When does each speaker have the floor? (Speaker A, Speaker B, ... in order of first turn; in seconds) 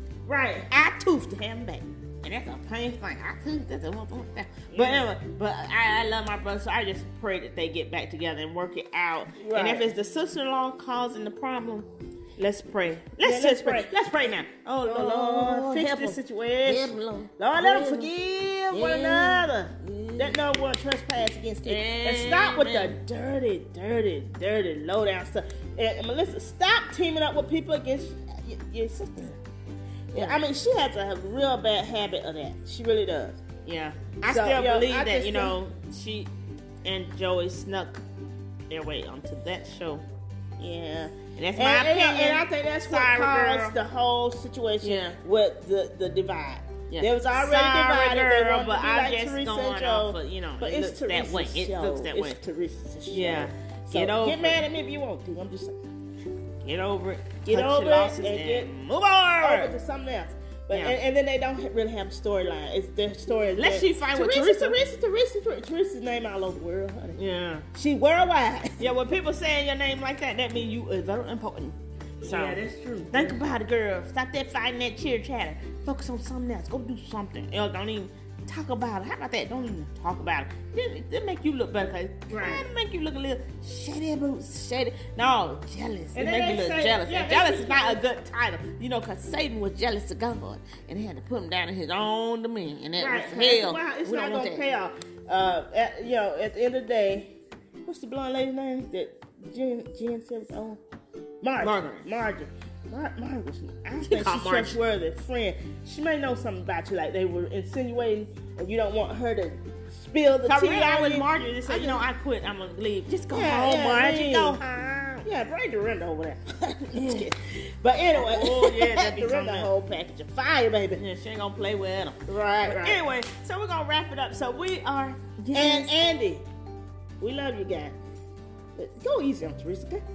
Speaker A: 0.2-0.7, 4.7-5.1, 9.3-9.9, 13.2-13.9, 14.8-29.4, 30.1-33.4, 34.2-35.6, 40.6-55.8, 57.4-58.7, 59.4-67.2, 67.7-68.9, 72.2-73.4, 82.3-82.6, 86.1-88.0, 93.0-97.3, 97.8-100.8, 101.4-112.0, 113.3-114.6, 115.2-121.0, 122.3-123.0, 125.5-126.4, 127.2-127.9, 128.8-130.0
Speaker B: 0.7-18.1, 18.7-20.4, 21.6-23.0, 30.1-30.4, 33.6-36.3, 36.8-38.0, 38.7-40.0, 41.3-43.8, 44.8-45.2, 46.9-52.4, 53.1-54.6, 56.6-59.7, 60.7-61.0, 63.5-64.8, 67.1-67.7, 68.8-94.7, 101.6-102.0, 104.0-104.8, 110.4-115.3, 116.9-117.3, 118.1-119.7, 121.0-125.9